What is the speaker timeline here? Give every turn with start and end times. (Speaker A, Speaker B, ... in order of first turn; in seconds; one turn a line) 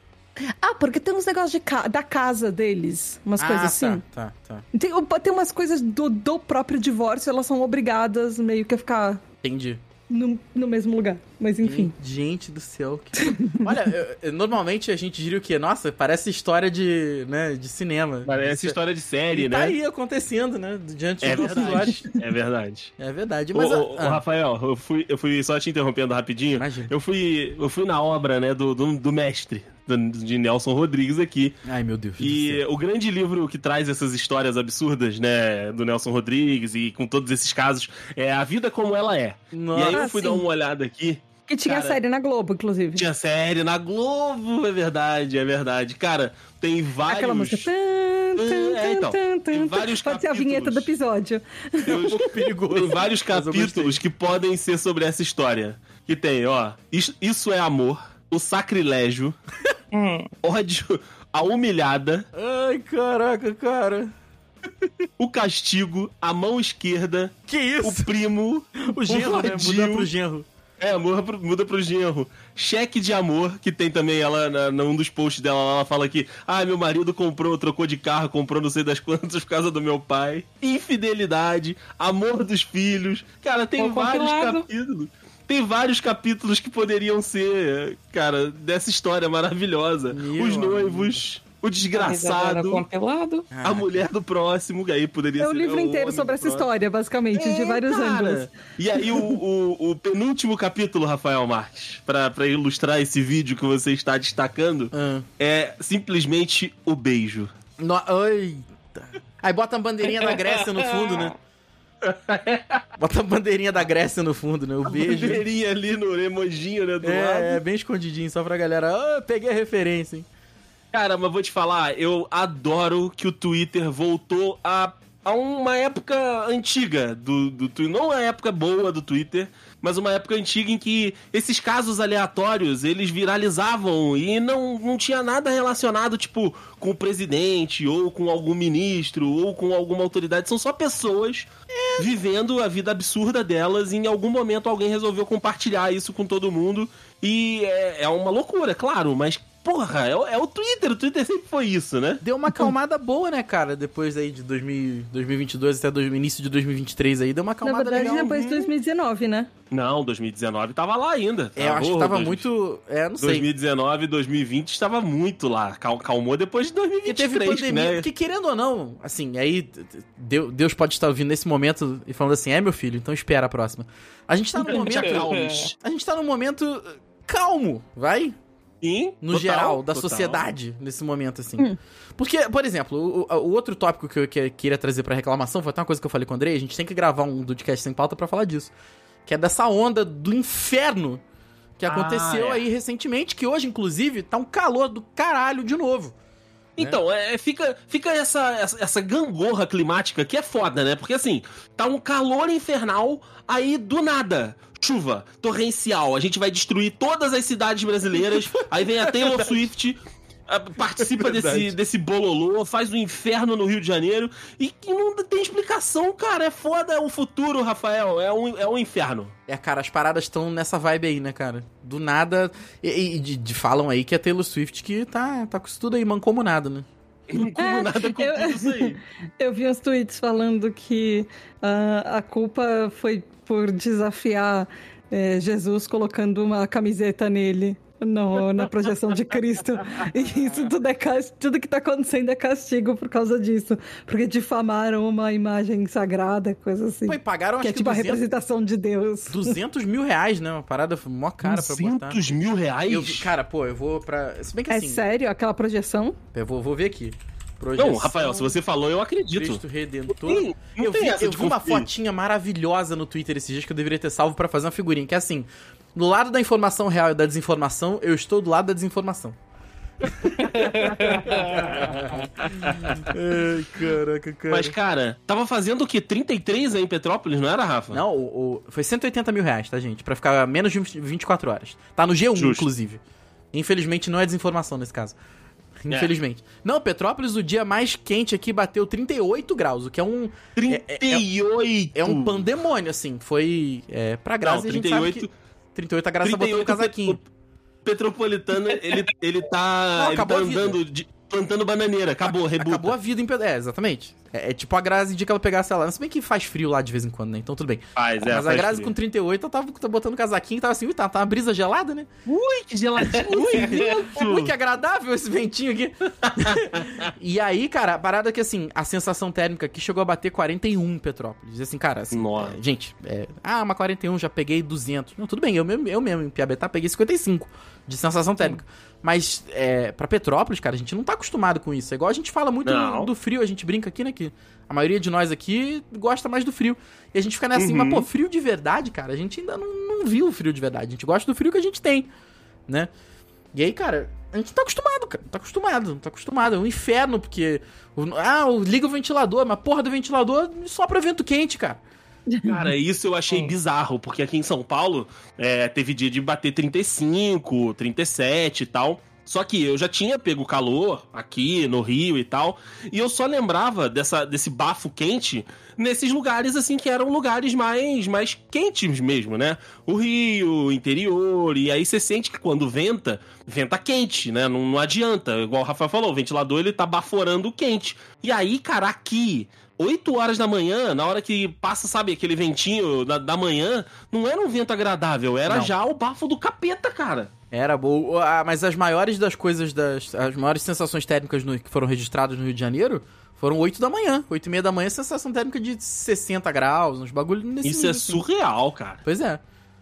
Speaker A: 0.4-4.0
Speaker B: 3.4-4.7
Speaker A: 4.7-9.2
Speaker B: 9.4-9.8
Speaker A: 10.1-11.9
Speaker B: 11.6-18.8
Speaker A: 13.2-13.7
Speaker C: 18.2-19.8
Speaker B: 19.3-22.1
Speaker C: 21.2-22.9
Speaker B: 23.0-24.2
Speaker C: 23.5-31.6
Speaker B: 26.6-26.9
Speaker B: 31.6-32.6
Speaker C: 32.2-42.0
Speaker B: 39.5-40.0
Speaker A: 39.9-40.4
Speaker A: 41.5-43.1
Speaker C: 43.0-47.7
Speaker A: 47.1-52.2
Speaker C: 48.4-50.9
Speaker C: 51.9-59.4
Speaker B: 51.9-54.0
Speaker D: 59.9-60.3
Speaker C: 60.4-62.3
Speaker B: 62.3-64.1
Speaker C: 65.2-70.1
Speaker B: 67.5-68.1
Speaker B: 68.8-70.5
Speaker C: 70.8-92.8
Speaker D: 83.8-84.7
Speaker B: 90.1-91.2
Speaker D: 91.9-93.5
Speaker B: 93.5-94.1
Speaker C: 93.6-96.7
Speaker A: 95.4-98.5
Speaker C: 97.3-107.5
Speaker B: 104.9-105.3
Speaker B: 107.8-111.3
Speaker C: 112.0-112.8
Speaker B: 113.0-115.5
Speaker C: 114.9-117.6
Speaker B: 117.0-120.3
Speaker C: 120.9-152.2
Speaker B: 141.7-142.1
Speaker B: 152.2-158.4
Speaker A: 157.6-159.5
Speaker C: 158.2-158.7
Speaker C: 159.7-162.4
Speaker B: 161.6-163.5
Speaker C: 163.2-168.1
Speaker B: 167.1-178.4
Speaker C: 174.7-175.7
Speaker D: 174.8-175.6
Speaker C: 178.8-180.4
Speaker B: 179.2-188.7
Speaker B: 189.3-191.2
Speaker B: 191.8-196.2
Speaker C: 191.9-192.7
Speaker C: 196.8-219.3
Speaker B: 208.3-209.7
Speaker B: 211.0-211.8
Speaker B: 219.5-226.9
Speaker C: 227.3-229.0
Speaker A: 227.4-249.6
Speaker B: 247.1-248.3
Speaker B: 249.3-252.2
Speaker C: 251.4-253.3
Speaker B: 252.9-255.0
Speaker A: 254.7-256.2
Speaker B: 256.3-258.6
Speaker C: 257.8-259.6
Speaker B: 259.3-269.4
Speaker C: 260.1-261.9
Speaker B: 270.0-272.3
Speaker D: 270.8-271.4
Speaker C: 271.0-273.0
Speaker B: 272.8-274.8
Speaker C: 274.5-278.0
Speaker B: 277.9-283.0
Speaker C: 282.4-282.7
Speaker B: 283.5-285.2
Speaker B: 285.8-291.2
Speaker C: 290.6-292.4
Speaker B: 291.9-297.2
Speaker C: 294.4-295.3
Speaker C: 296.2-297.2
Speaker C: 297.9-302.9
Speaker B: 300.0-300.8
Speaker B: 302.3-312.1
Speaker C: 308.0-308.9
Speaker C: 312.3-314.5
Speaker B: 313.1-342.1
Speaker C: 316.2-317.1
Speaker C: 322.1-322.6
Speaker C: 332.6-333.1
Speaker C: 337.6-338.1
Speaker B: 343.5-351.8
Speaker A: 352.3-352.6
Speaker C: 352.4-387.3
Speaker B: 385.5-385.7
Speaker B: 387.5-398.2
Speaker C: 397.6-399.0
Speaker B: 399.1-399.4